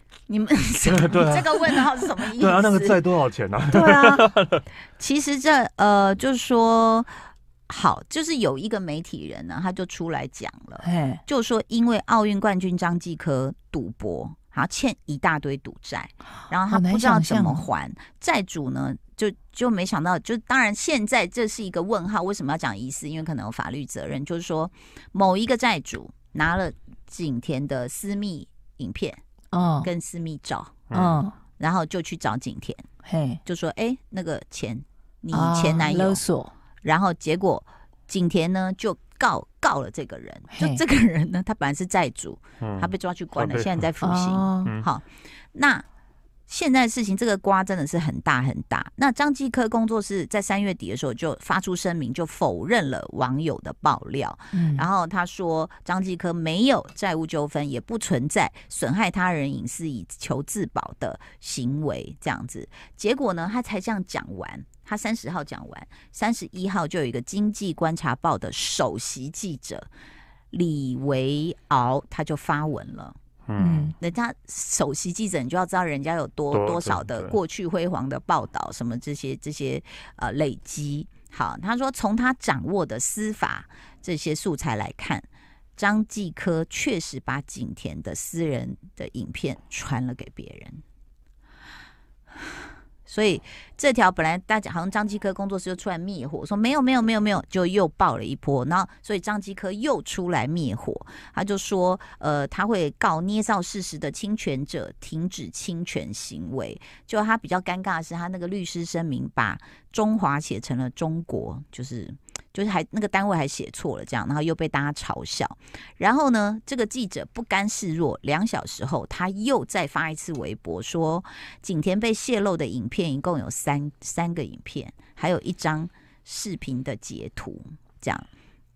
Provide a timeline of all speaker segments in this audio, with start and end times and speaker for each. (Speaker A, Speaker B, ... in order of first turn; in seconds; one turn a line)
Speaker A: 0.3-3.0
Speaker B: 0.8-4.6
Speaker C: 3.7-4.3
Speaker A: 5.0-7.1
Speaker A: 7.7-29.2
Speaker C: 10.8-11.2
Speaker C: 16.7-17.6
Speaker C: 29.5-29.9
Speaker A: 29.8-30.8
Speaker B: 30.9-31.2
Speaker C: 30.9-31.3
Speaker A: 31.6-32.9
Speaker C: 33.0-33.4
Speaker A: 33.4-36.2
Speaker C: 35.3-36.5
Speaker A: 36.8-45.9
Speaker C: 40.5-40.8
Speaker B: 42.6-43.9
Speaker C: 44.0-44.7
Speaker A: 46.5-69.9
Speaker C: 54.5-54.9
Speaker A: 70.5-73.2
Speaker B: 73.5-73.9
Speaker C: 73.6-73.9
Speaker A: 74.0-90.8
Speaker B: 76.5-77.4
Speaker A: 93.1-128.3